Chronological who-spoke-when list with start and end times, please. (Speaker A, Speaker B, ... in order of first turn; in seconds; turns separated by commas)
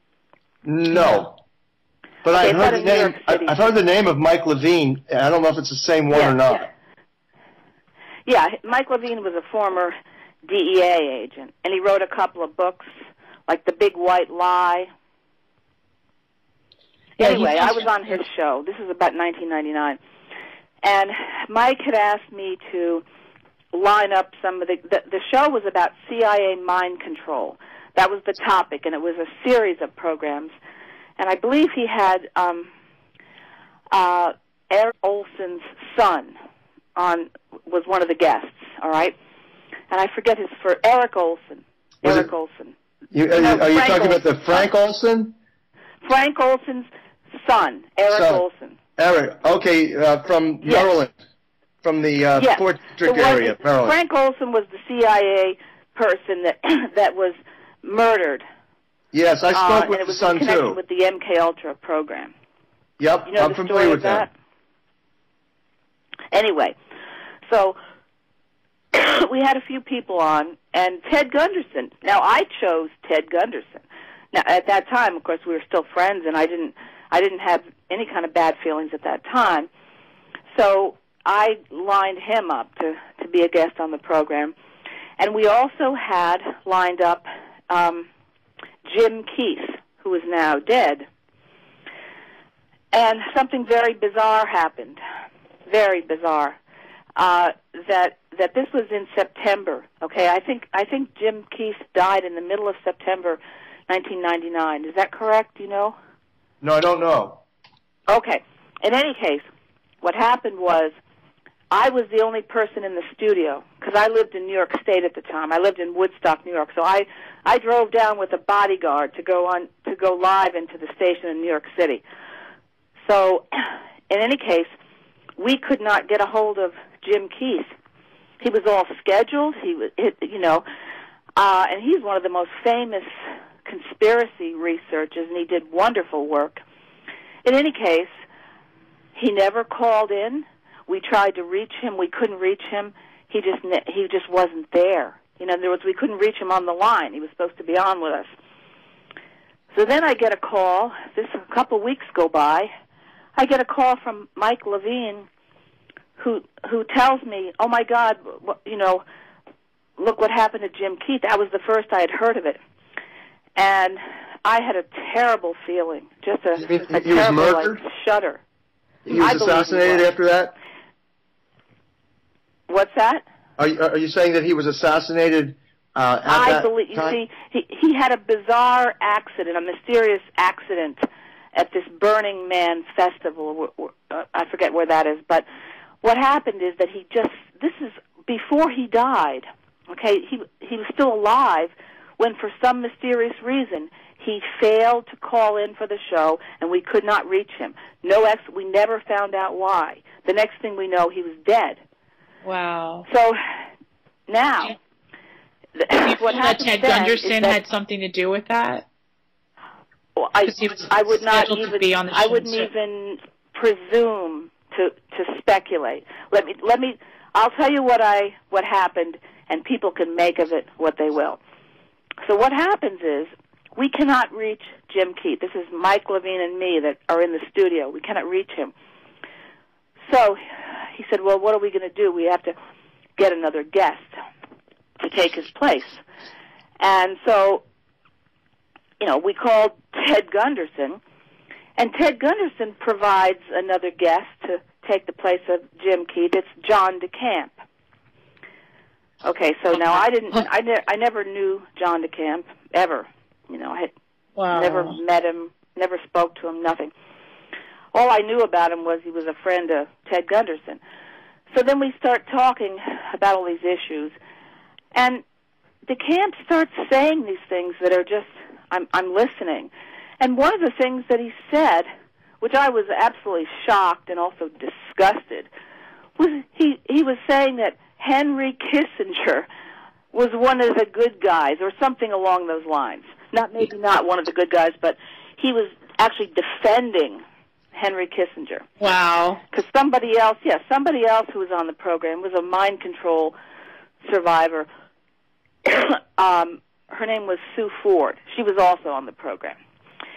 Speaker A: 0.6-1.4, Speaker A: 2.2-6.7, Speaker B: 2.3-3.7, Speaker B: 6.1-6.4, Speaker B: 8.3-9.9, Speaker B: 10.5-12.8, Speaker B: 13.5-14.9, Speaker C: 17.2-18.2, Speaker B: 17.2-20.0, Speaker B: 20.8-23.0, Speaker B: 23.7-30.5, Speaker B: 31.2-32.7, Speaker B: 33.9-36.4, Speaker B: 37.0-39.1, Speaker B: 39.9-42.7, Speaker A: 43.1-45.3, Speaker B: 43.4-44.7, Speaker B: 46.0-46.9, Speaker B: 47.4-48.8, Speaker A: 48.1-48.4, Speaker A: 49.0-51.1, Speaker B: 50.6-50.9, Speaker A: 51.8-54.0, Speaker B: 52.4-58.4, Speaker A: 59.1-60.8, Speaker B: 59.5-62.3, Speaker A: 63.0-64.3, Speaker B: 63.3-64.3, Speaker B: 66.3-66.8, Speaker B: 67.5-67.8, Speaker B: 68.9-79.7, Speaker B: 80.5-84.5, Speaker B: 85.2-88.1, Speaker B: 88.8-91.0, Speaker B: 92.9-95.0, Speaker B: 95.7-96.6, Speaker B: 97.2-106.0, Speaker A: 106.6-107.4, Speaker B: 108.1-109.4, Speaker B: 110.0-110.9, Speaker B: 111.7-122.0, Speaker B: 123.0-124.7, Speaker B: 125.4-127.7, Speaker B: 128.4-130.7, Speaker B: 131.4-133.1, Speaker B: 133.7-136.6, Speaker B: 137.4-138.1, Speaker B: 139.2-148.3, Speaker B: 149.7-152.7, Speaker B: 153.4-155.3, Speaker B: 156.2-159.0, Speaker B: 160.0-162.6, Speaker B: 163.6-168.4, Speaker A: 166.6-167.8, Speaker A: 169.1-170.6, Speaker B: 169.1-170.1, Speaker B: 172.7-173.2, Speaker A: 173.6-177.2, Speaker B: 176.3-181.0, Speaker B: 181.5-185.4, Speaker B: 186.0-201.8, Speaker C: 202.4-203.1, Speaker B: 203.1-203.4, Speaker B: 204.3-204.8, Speaker B: 205.8-207.6, Speaker C: 205.9-208.8, Speaker B: 210.2-221.4, Speaker C: 210.4-212.7, Speaker B: 222.3-228.7, Speaker B: 230.1-232.5, Speaker B: 233.2-234.1, Speaker B: 235.0-236.0, Speaker B: 236.8-237.6, Speaker B: 239.0-241.0, Speaker B: 241.8-247.6, Speaker B: 249.2-253.9, Speaker C: 254.4-255.0, Speaker B: 254.5-256.9, Speaker B: 257.9-260.8, Speaker B: 261.5-264.1, Speaker B: 264.9-265.2, Speaker B: 265.9-271.9, Speaker B: 272.4-275.5, Speaker B: 276.2-279.5, Speaker B: 280.1-287.2, Speaker B: 287.7-288.7, Speaker C: 288.8-289.4, Speaker B: 289.5-293.3, Speaker B: 294.1-294.7, Speaker B: 295.6-299.6